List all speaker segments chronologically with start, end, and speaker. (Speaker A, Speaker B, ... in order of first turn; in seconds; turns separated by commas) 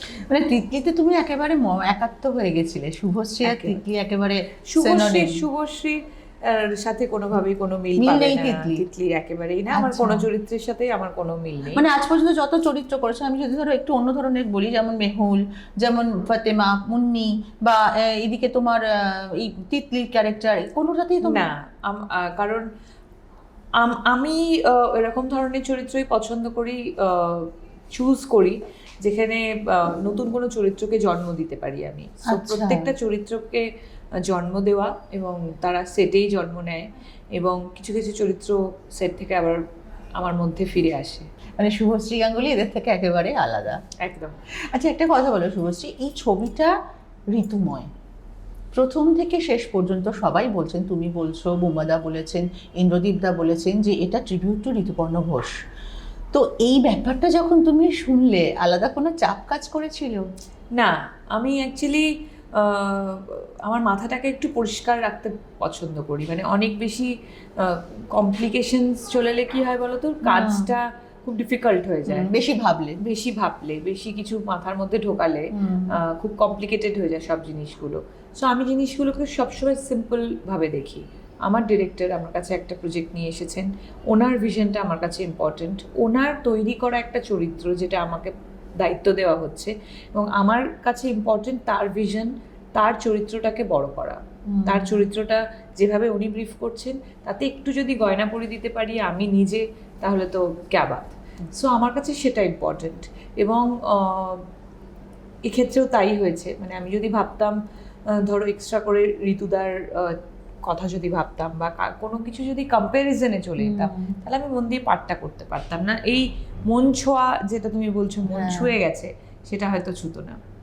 Speaker A: 0.3-5.5, Speaker B: 3.4-3.8, Speaker B: 4.7-11.8, Speaker A: 8.0-8.8, Speaker A: 9.7-10.3, Speaker A: 11.7-21.5, Speaker B: 21.2-22.7, Speaker B: 23.8-33.7, Speaker A: 32.3-32.9, Speaker B: 34.2-39.6, Speaker B: 40.2-41.2, Speaker A: 41.6-43.8, Speaker B: 44.0-44.4, Speaker A: 44.7-46.8, Speaker A: 47.3-47.9, Speaker A: 48.8-55.5, Speaker A: 56.3-60.3, Speaker B: 60.8-72.3, Speaker A: 70.2-70.7, Speaker A: 72.1-73.0, Speaker B: 73.0-104.5, Speaker A: 75.5-76.0, Speaker A: 94.5-95.1, Speaker B: 105.4-107.6, Speaker B: 108.1-120.4, Speaker A: 113.6-114.2, Speaker A: 118.3-118.8